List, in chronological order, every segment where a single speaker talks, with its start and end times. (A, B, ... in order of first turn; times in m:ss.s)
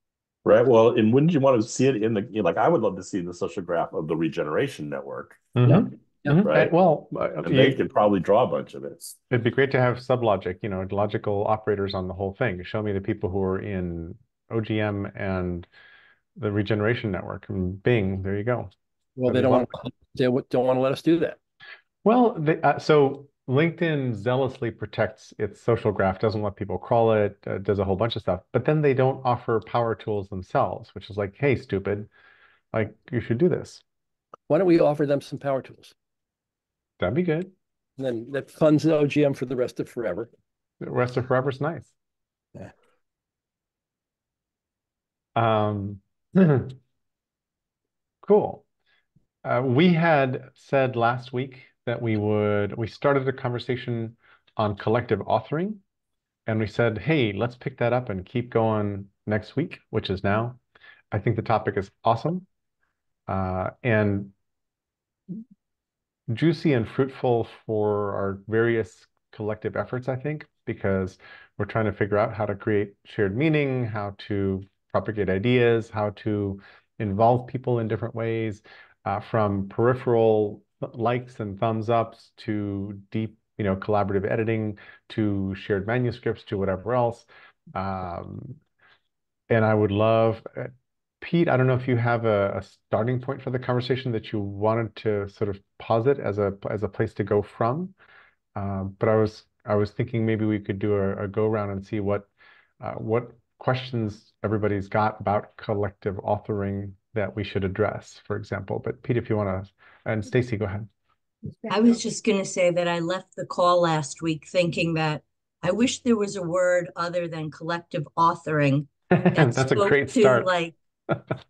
0:00.4-0:05.6 A
0:05.6-0:07.8 B
0:06.4-0:06.7 A
0:07.4-0:09.1 A
0:09.3-0:15.7 B
0:16.4-0:18.7 B
0:19.2-0:21.4 C
0:19.3-0:19.7 B
0:22.0-0:32.1 B
0:32.7-0:33.8 B
0:34.5-0:35.9 C
0:37.0-0:37.5 B
0:38.0-0:40.3 C
0:40.8-0:41.9 B
0:45.4-0:46.8 B
0:48.2-0:48.6 B
0:49.4-0:55.8 B
0:56.5-1:00.6 B
1:01.1-1:02.4 B
1:03.3-1:04.3 B
1:06.3-1:28.6 B
1:29.5-1:37.9 B
1:38.6-1:42.3 B
1:42.8-1:50.9 B
1:51.7-2:00.7 D
1:59.1-2:00.5 B